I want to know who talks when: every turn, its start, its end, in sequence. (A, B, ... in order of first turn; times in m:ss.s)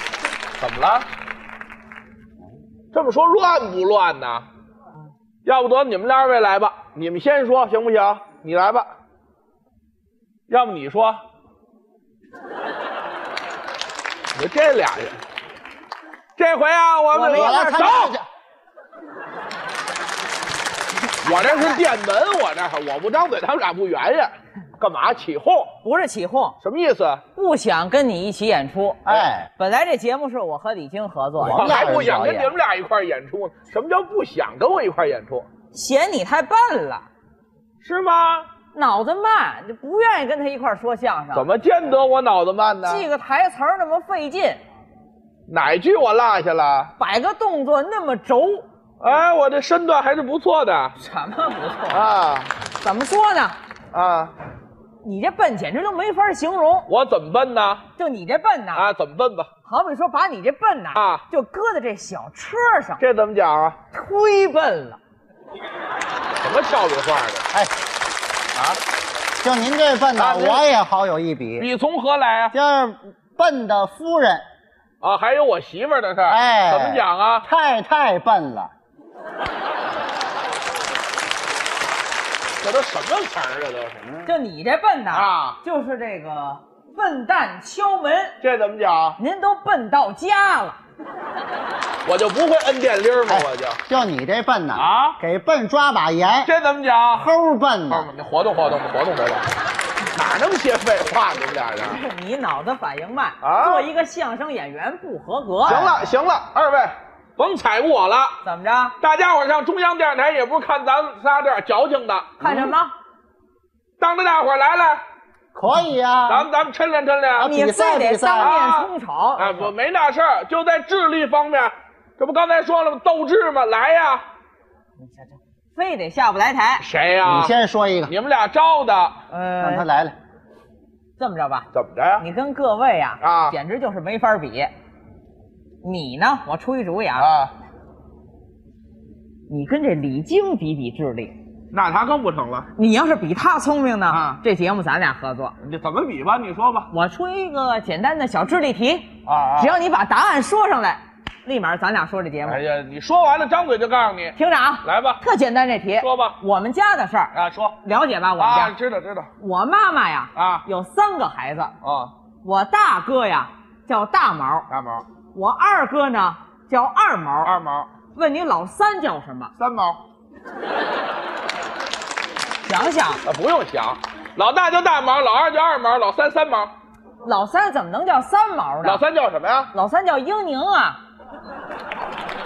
0:00.6-0:01.1 A
0:02.9-0:04.4 A
0:05.4-0:08.9 A
0:10.5-0:11.2 A
0:14.3-0:15.2 A
0:16.4-0:18.2 A
0:17.1-0:18.0 B
0:17.3-0:18.2 C
0:21.2-0:25.7 A
0:21.2-0:21.8 B
0:25.8-0:26.6 B
0:26.6-0:27.2 A
0:27.3-0:29.0 B
0:29.0-0:29.5 C
0:29.6-0:31.8 B
0:31.4-0:32.5 C
0:31.4-0:35.4 A
0:35.7-0:37.0 B
0:37.8-0:38.5 A
0:38.7-0:41.5 B
0:41.3-0:43.1 A
0:42.8-0:44.6 B
0:45.5-0:46.9 A
0:47.0-0:48.6 B
0:49.0-0:51.0 A
0:51.0-0:52.1 B
0:51.9-0:52.5 A
0:52.8-0:53.6 B
0:53.9-0:54.3 A
0:55.0-0:56.9 B
0:56.9-0:57.8 A
0:58.0-0:58.9 B
0:58.7-0:59.5 A
0:59.6-1:03.0 B
1:00.9-1:01.2 A
1:03.0-1:03.8 A
1:03.9-1:05.0 B
1:06.4-1:07.4 A
1:09.4-1:11.7 C
1:10.2-1:10.6 A
1:11.6-1:12.6 A
1:12.5-1:14.4 C
1:15.0-1:17.4 A
1:16.3-1:18.7 C
1:22.6-1:24.1 A
1:24.2-1:28.4 B
1:25.1-1:25.6 A
1:28.4-1:29.2 A
1:29.2-1:30.8 B
1:32.0-1:33.8 A
1:33.3-1:36.5 C
1:34.7-1:35.2 A
1:36.4-1:37.3 A
1:37.1-1:38.1 C
1:37.9-1:39.5 A
1:40.1-1:42.0 A
1:41.8-1:45.9 B
1:43.4-1:43.9 A
1:45.6-1:48.4 A
1:48.4-1:49.0 B
1:49.0-1:52.6 A
1:52.4-1:52.9 B
1:54.0-1:55.0 A
1:55.5-1:56.5 C
1:56.3-1:57.5 A
1:57.4-1:58.6 C
1:57.4-1:59.7 B
1:58.4-2:04.2 A
2:05.0-2:06.8 B
2:06.8-2:07.5 A
2:07.2-2:08.1 C
2:08.1-2:09.2 A
2:09.3-2:09.8 B
2:09.6-2:10.1 C
2:11.2-2:11.7 B
2:11.7-2:12.2 A
2:12.2-2:14.7 B
2:13.2-2:13.6 A
2:15.8-2:17.3 B
2:17.2-2:17.5 A
2:19.5-2:21.3 B
2:21.7-2:22.7 A
2:22.7-2:25.5 B
2:24.1-2:24.4 A
2:25.6-2:26.9 A
2:26.9-2:32.6 B
2:29.2-2:29.7 A
2:32.4-2:35.2 A
2:34.3-2:38.7 B
2:36.0-2:36.4 A
2:37.3-2:37.8 A
2:38.4-2:39.3 A
2:39.4-2:41.7 B
2:40.3-2:40.6 A
2:41.8-2:42.1 A
2:42.4-2:44.7 B
2:44.7-2:45.0 A
2:45.3-2:47.5 B
2:47.4-2:47.9 A
2:48.1-2:49.5 B
2:49.6-2:50.0 A
2:52.6-2:53.2 B
2:53.2-2:56.7 A
2:57.2-2:59.0 B
2:58.8-2:59.7 A
2:59.7-3:01.0 B